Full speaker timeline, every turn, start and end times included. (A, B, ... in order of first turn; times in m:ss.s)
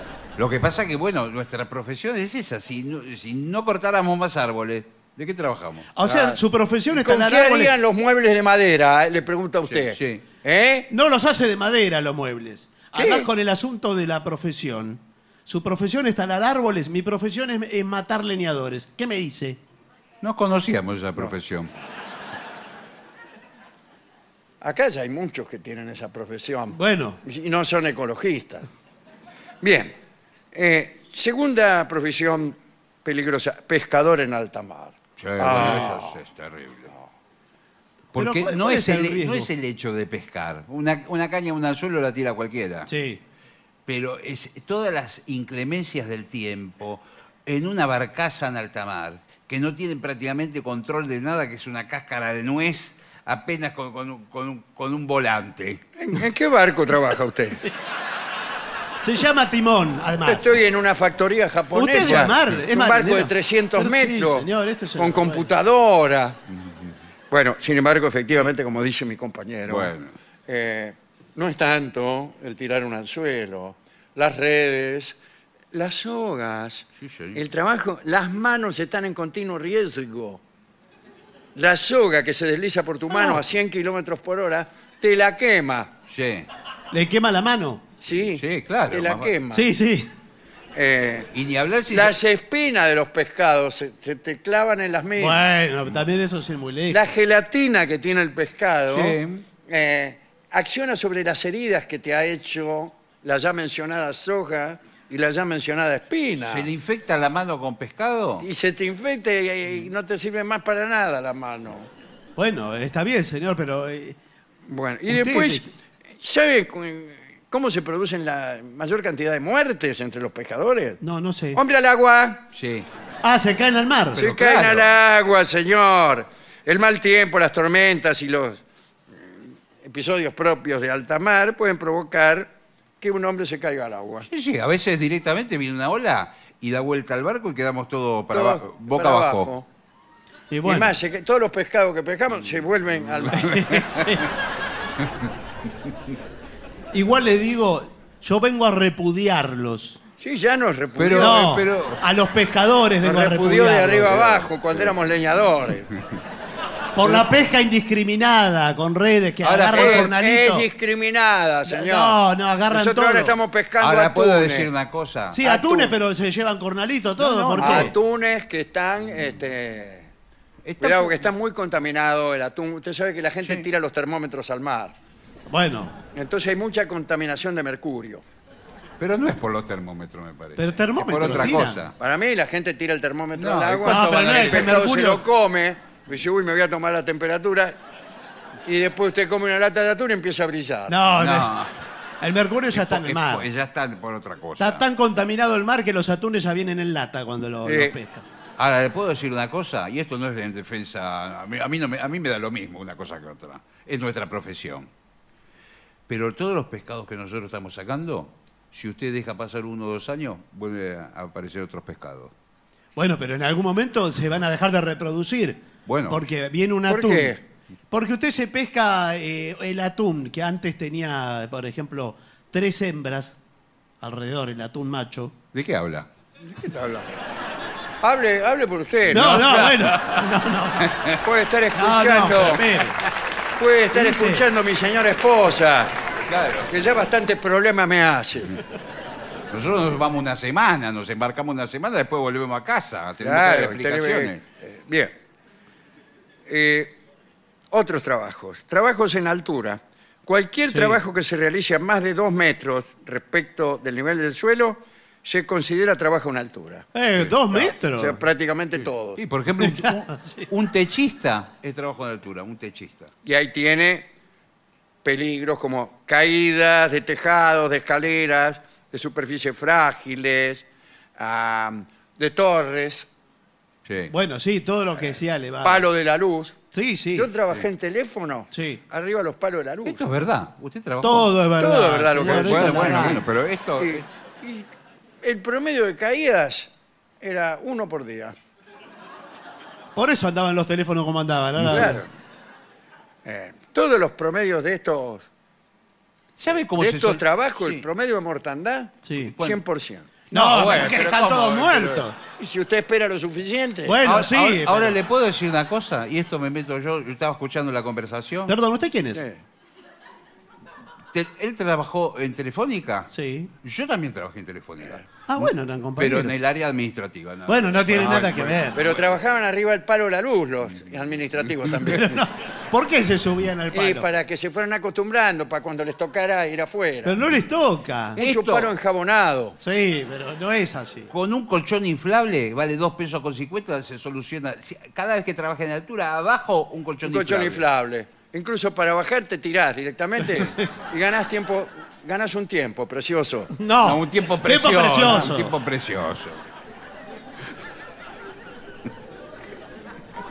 0:00.4-0:05.9 A
0:05.9-0:07.7 B
0:06.0-0:10.9 C
0:09.7-0:10.2 A
0:10.9-0:19.6 B
0:13.0-0:13.3 C
0:20.2-0:21.7 A
0:24.6-0:28.7 C
0:26.7-0:27.2 B
0:29.6-0:29.9 C
0:30.5-0:36.2 C
0:35.2-0:36.9 A
0:35.6-0:35.9 B
0:38.1-0:42.9 A
0:38.1-0:39.5 B
0:42.9-0:43.2 B
0:43.9-0:55.8 A
0:56.0-0:57.6 C
0:59.0-1:00.5 B
1:00.2-1:06.4 C
1:01.7-1:05.5 B
1:02.0-1:02.5 A
1:06.6-1:06.9 A
1:07.3-1:09.9 C
1:09.7-1:10.1 A
1:10.5-1:15.2 C
1:15.7-1:20.4 C
1:17.0-1:17.4 A
1:21.6-1:25.9 C
1:23.1-1:23.4 B
1:26.1-1:26.5 A
1:26.9-1:27.8 B
1:28.0-1:29.7 C
1:28.1-1:29.4 A
1:29.5-1:30.1 B
1:30.8-1:31.3 C
1:31.3-1:32.2 A
1:31.9-1:35.4 C
1:35.2-1:37.0 B
1:36.9-1:46.7 C
1:38.9-1:39.4 A
1:46.4-1:48.5 A
1:48.4-1:51.9 C
1:52.4-1:54.2 B
1:54.7-1:55.7 C
1:55.1-1:55.6 B
1:56.2-2:01.0 C
2:01.0-2:01.6 B
2:01.6-2:02.4 C
2:02.5-2:02.9 A
2:03.2-2:04.2 B
2:04.1-2:05.0 A
2:04.2-2:08.6 C
2:09.2-2:14.3 C
2:14.3-2:19.5 A
2:18.3-2:19.7 C
2:20.5-2:20.9 B
2:20.6-2:23.6 C
2:23.3-2:24.2 A
2:23.4-2:24.3 B
2:26.9-2:30.0 B
2:30.2-2:31.4 C
2:31.0-2:32.0 A
2:31.2-2:34.3 B
2:33.0-2:35.9 C
2:34.1-2:34.9 A
2:37.0-2:40.7 B
2:39.4-2:40.1 A
2:39.8-2:44.7 C
2:41.7-2:43.4 B
2:43.8-2:45.4 A
2:45.3-2:47.9 B
2:45.4-2:46.0 C
2:47.2-2:48.0 A
2:47.6-2:50.1 C
2:50.6-2:51.3 A
2:50.8-2:55.0 C
2:55.5-2:55.9 B
2:56.1-2:58.2 C
2:59.0-3:02.0 A
3:00.6-3:01.8 B
3:01.3-3:07.8 C
3:03.4-3:04.8 A
3:03.9-3:05.2 B
3:08.7-3:11.0 C
3:10.9-3:11.5 B
3:11.1-3:11.7 A
3:12.2-3:13.5 B
3:12.7-3:14.8 A
3:14.6-3:18.2 B
3:17.6-3:17.9 C
3:18.6-3:24.9 A
3:26.1-3:32.3 A
3:33.0-3:37.4 B
3:35.9-3:36.2 A
3:36.9-3:37.4 C
3:37.9-3:43.4 B
3:44.0-3:45.4 B
3:45.5-3:46.1 A
3:46.4-3:47.1 C
3:48.0-3:49.4 C
3:49.1-3:51.0 B
3:49.1-3:51.2 A
3:51.2-3:52.7 C
3:51.8-3:53.0 B
3:53.6-3:56.0 C
3:53.9-3:54.4 B
3:56.3-3:56.7 A
3:56.6-3:58.6 C
3:59.5-4:04.4 A
4:03.2-4:05.2 C
4:06.5-4:07.0 C
4:07.7-4:16.9 C
4:10.7-4:11.0 B
4:16.9-4:18.2 B
4:17.9-4:19.2 C
4:18.8-4:23.1 A
4:19.6-4:20.5 B
4:23.2-4:24.1 C
4:25.0-4:30.6 C
4:31.2-4:33.1 C
4:33.8-4:34.1 A
4:34.1-4:35.8 B
4:35.6-4:36.6 C
4:36.7-4:37.3 B
4:37.1-4:40.0 C
4:38.5-4:38.8 B
4:39.8-4:41.4 A
4:41.0-4:43.2 B
4:41.6-4:43.2 C
4:42.2-4:44.1 A
4:43.8-4:44.7 C
4:45.2-4:46.7 C
4:47.2-4:48.4 C
4:50.0-4:52.0 B
4:51.6-4:51.9 A
4:51.7-4:52.1 C
4:53.2-4:55.2 C
4:56.4-4:57.8 A
4:56.8-5:04.7 C
4:59.0-4:59.4 B
4:59.2-4:59.6 A
5:00.3-5:02.2 B
5:00.3-5:01.0 A
5:03.9-5:05.0 B
5:04.0-5:08.6 A
5:08.5-5:09.2 B
5:09.1-5:09.4 C
5:11.1-5:13.1 A
5:13.1-5:13.5 B
5:13.6-5:19.1 A
5:15.3-5:16.4 B
5:17.5-5:18.8 B
5:18.7-5:22.2 C
5:21.8-5:24.1 B
5:23.7-5:27.2 C
5:27.0-5:28.2 B
5:28.1-5:28.8 A
5:28.2-5:29.6 C
5:29.6-5:31.1 B
5:31.1-5:37.6 A
5:37.0-5:43.5 C
5:40.2-5:40.8 B
5:43.5-5:45.6 B
5:43.8-5:46.4 A